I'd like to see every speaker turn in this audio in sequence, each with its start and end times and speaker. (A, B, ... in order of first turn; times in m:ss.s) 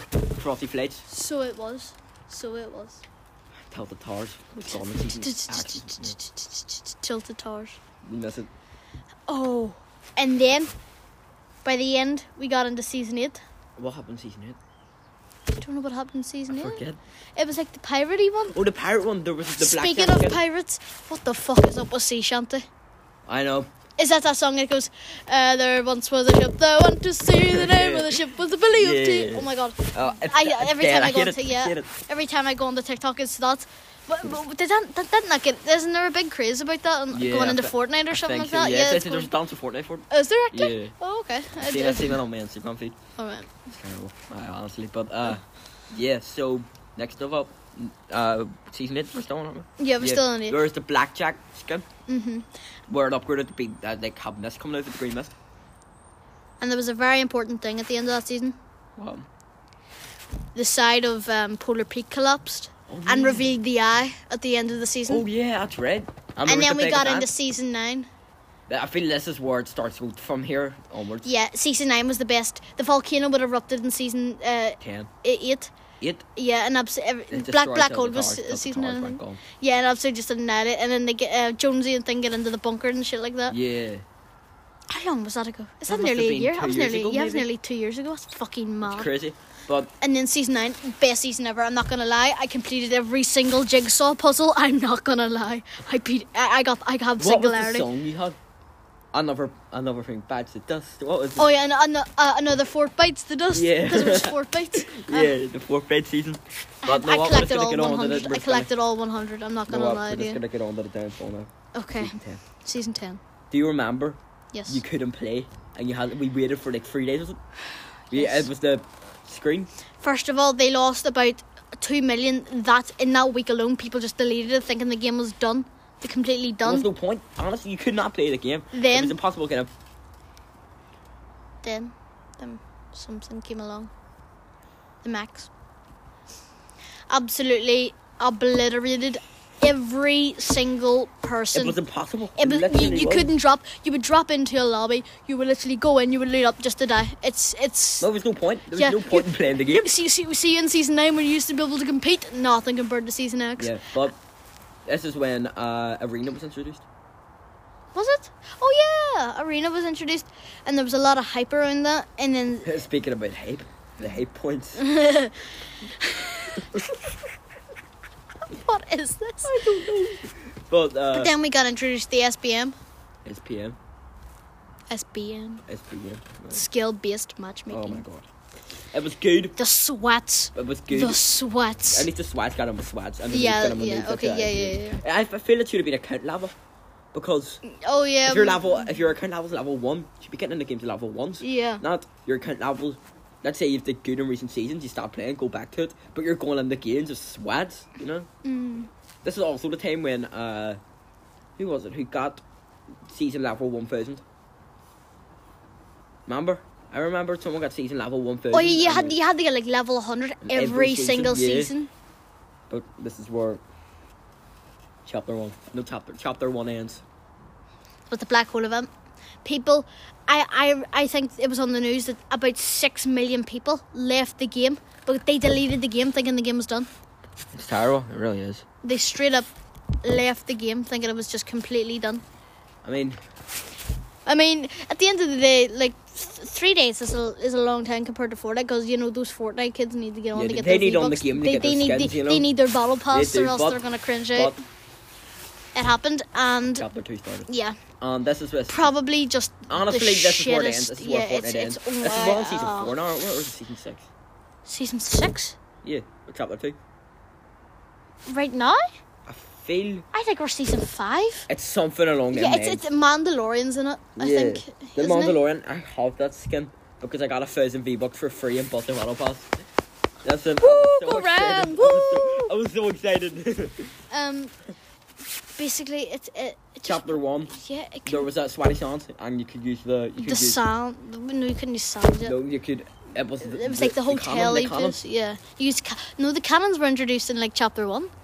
0:00.4-0:01.0 A
0:01.1-0:03.0 B
0:03.7-0:06.2 A
0:05.0-0:07.8 B
0:08.0-0:08.5 A
0:09.3-0:10.7 B
0:11.6-0:13.4 B
0:13.8-0:14.6 A
0:15.5-0:16.8 B
0:16.5-0:17.0 A
0:17.4-0:18.6 B
0:18.5-0:20.4 A
0:19.6-0:22.6 B
0:23.3-0:23.7 A
0:24.0-0:39.3 B
0:27.4-0:31.9 A
0:37.1-0:40.9 A
0:40.1-0:42.2 B
0:41.6-0:43.0 A
0:43.2-0:43.5 B
0:43.7-0:51.9 A
0:49.8-0:50.6 B
0:52.1-0:52.5 B
0:52.9-0:55.3 A
0:56.6-0:58.6 B
0:59.0-0:59.3 A
1:00.6-1:05.2 B
1:02.9-1:03.5 A
1:05.1-1:07.3 A
1:06.5-1:08.1 B
1:08.7-1:11.3 A
1:11.2-1:15.7 B
1:14.8-1:15.1 A
1:16.0-1:16.2 A
1:16.4-1:23.6 B
1:17.3-1:19.4 A
1:23.5-1:24.0 A
1:24.9-1:29.1 B
1:25.9-1:27.5 A
1:28.8-1:29.9 A
1:30.0-1:37.9 B
1:37.2-1:38.4 A
1:39.1-1:41.5 A
1:41.4-1:45.4 B
1:43.5-1:48.7 A
1:46.8-1:50.4 B
1:49.7-1:52.4 A
1:51.7-1:53.2 B
1:53.5-1:57.4 A
1:54.5-1:54.8 B
1:58.1-1:59.7 A
1:58.1-1:58.5 B
2:00.0-2:06.9 B
2:06.6-2:09.7 A
2:08.7-2:09.2 B
2:11.6-2:13.9 B
2:15.0-2:15.5 B
2:17.1-2:21.8 B
2:21.5-2:23.3 A
2:22.4-2:28.1 B
2:28.0-2:29.9 A
2:28.8-2:33.8 B
2:33.6-2:34.2 A
2:34.9-2:36.8 A
2:37.9-2:42.7 B
2:42.6-2:44.8 A
2:44.8-2:46.6 B
2:46.6-2:46.9 A
2:48.5-2:49.6 B
2:49.4-2:51.3 A
2:51.1-2:52.8 B
2:53.2-2:53.8 A
2:54.9-2:55.6 B
2:55.7-2:56.6 A
2:56.5-2:58.0 B
2:57.7-2:58.3 A
2:58.9-2:59.6 A
2:59.6-3:02.1 B
3:00.6-3:01.2 A
3:01.9-3:06.5 A
3:03.3-3:05.0 B
3:07.1-3:07.6 A
3:07.6-3:08.8 B
3:08.2-3:18.3 A
3:11.4-3:11.8 B
3:18.4-3:18.9 B
3:19.2-3:20.8 A
3:21.6-3:22.4 A
3:23.1-3:24.2 A
3:26.3-3:29.2 A
3:28.5-3:31.9 B
3:30.4-3:31.7 A
3:32.7-3:33.6 A
3:35.0-3:37.0 A
3:38.1-3:38.9 B
3:39.4-3:46.9 B
3:47.5-3:48.6 A
3:48.8-3:49.5 B
3:50.0-3:52.2 B
3:52.8-3:53.2 A
3:54.3-4:04.5 B
4:00.3-4:02.5 A
4:03.1-4:03.8 A
4:05.8-4:06.8 B
4:06.7-4:07.5 A
4:07.5-4:07.8 B
4:08.0-4:08.9 A
4:08.7-4:13.0 B
4:09.7-4:14.1 A
4:14.7-4:15.6 B
4:15.8-4:16.8 A
4:18.3-4:18.8 B
4:19.3-4:20.1 A
4:20.1-4:21.5 B
4:21.5-4:22.8 A
4:22.3-4:25.4 B
4:24.2-4:29.5 A
4:30.2-4:33.9 A
4:30.6-4:32.5 B
4:34.1-4:34.5 B
4:35.6-4:38.3 B
4:36.8-4:37.6 A
4:38.1-4:40.6 A
4:40.2-4:42.4 B
4:42.2-4:45.0 A
4:43.4-4:48.1 B